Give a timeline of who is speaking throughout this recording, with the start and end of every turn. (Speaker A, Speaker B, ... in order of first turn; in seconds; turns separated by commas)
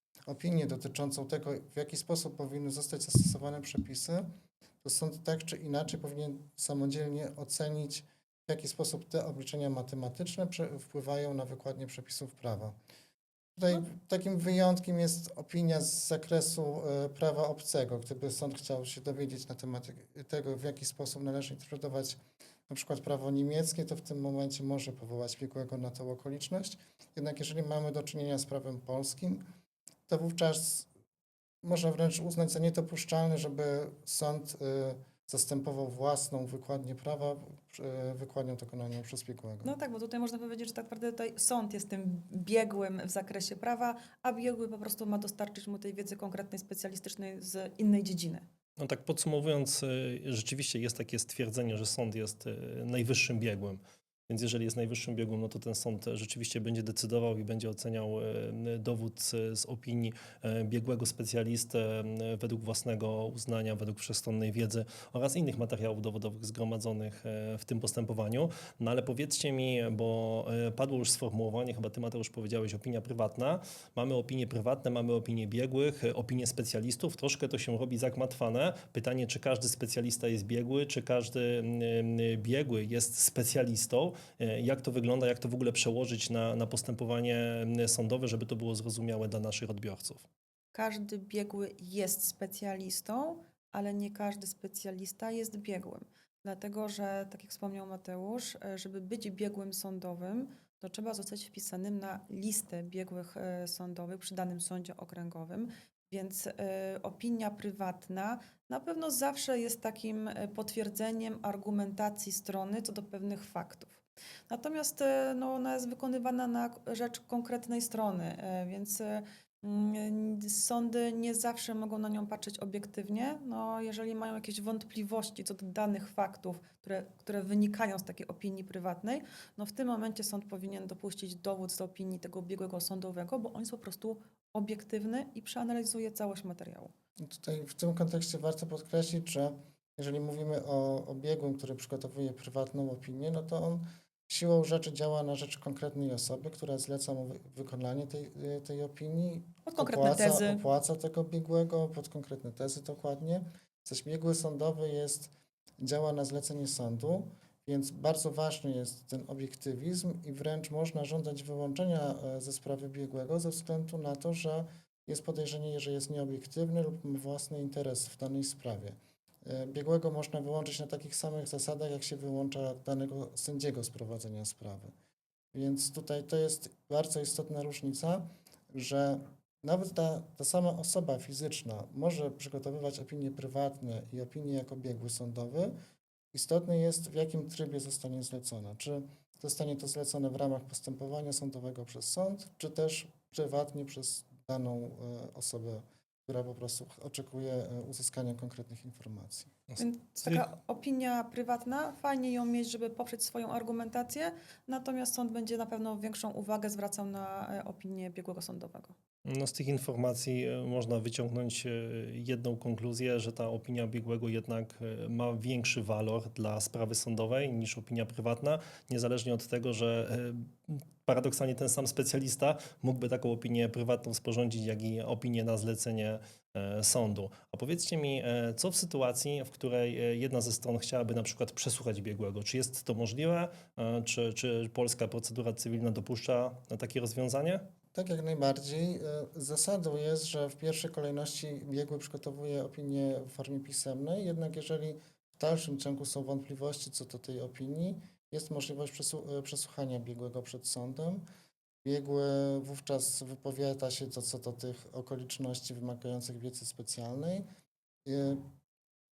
Speaker A: 0.3-4.3, Speaker A: 4.8-12.7, Speaker A: 13.6-29.4, Speaker A: 30.1-30.9, Speaker A: 31.6-39.8, Speaker B: 39.6-48.5, Speaker C: 48.8-90.3, Speaker B: 90.7-136.9, Speaker A: 137.2-174.9, Speaker B: 149.6-150.6, Speaker A: 175.5-185.7, Speaker A: 186.3-199.5, Speaker C: 199.7-200.4, Speaker B: 199.8-208.9, Speaker C: 209.2-237.7, Speaker A: 237.9-251.2, Speaker A: 251.8-257.4, Speaker A: 258.0-258.5